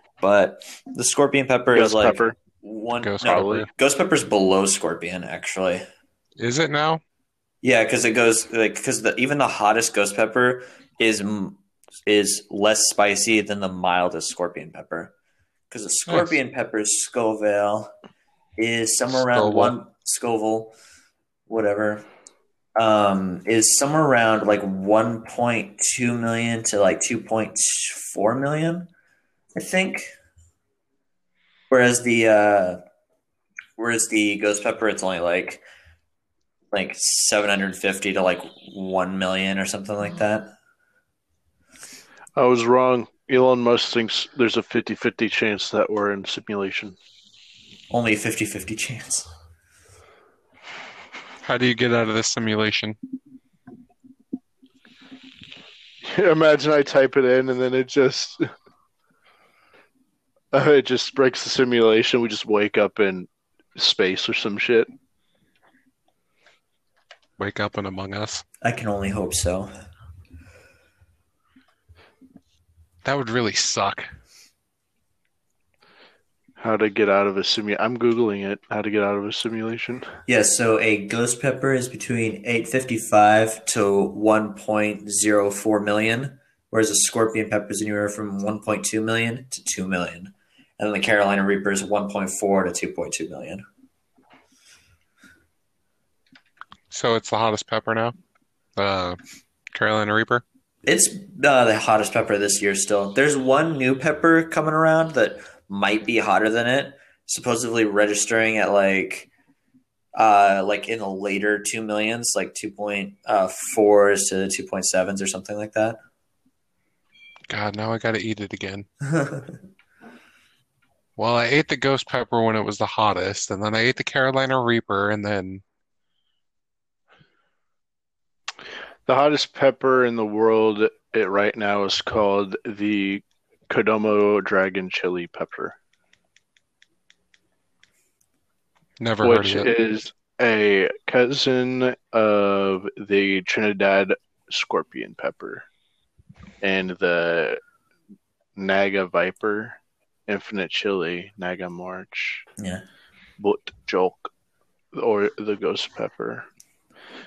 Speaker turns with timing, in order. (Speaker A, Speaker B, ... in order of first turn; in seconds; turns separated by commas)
Speaker A: 0.2-5.8, Speaker B: 1.7-2.4, Speaker C: 3.0-3.7, Speaker C: 6.4-7.0, Speaker A: 7.6-15.1, Speaker A: 15.7-17.9, Speaker C: 16.1-16.4, Speaker A: 18.6-20.8, Speaker C: 19.1-19.7, Speaker A: 21.5-22.1, Speaker A: 22.8-28.9, Speaker A: 29.6-30.1, Speaker A: 31.7-32.8, Speaker A: 33.8-35.6, Speaker A: 36.7-40.5, Speaker B: 42.4-47.0, Speaker A: 47.9-49.3, Speaker C: 51.4-53.0, Speaker B: 56.0-58.5, Speaker B: 60.5-64.9, Speaker C: 67.4-68.4, Speaker A: 68.6-69.7, Speaker C: 73.0-74.1, Speaker B: 76.6-80.1, Speaker A: 80.3-93.7, Speaker C: 96.9-98.2, Speaker C: 98.8-99.2, Speaker C: 99.7-100.4, Speaker A: 100.8-109.3, Speaker A: 110.2-116.0, Speaker C: 117.5-118.9, Speaker A: 119.1-119.4, Speaker C: 121.2-125.6, Speaker B: 129.1-135.8, Speaker C: 139.0-139.7, Speaker B: 139.2-145.7, Speaker B: 146.6-147.6, Speaker B: 148.6-152.5, Speaker A: 152.6-152.8, Speaker B: 153.4-154.3, Speaker B: 154.9-156.5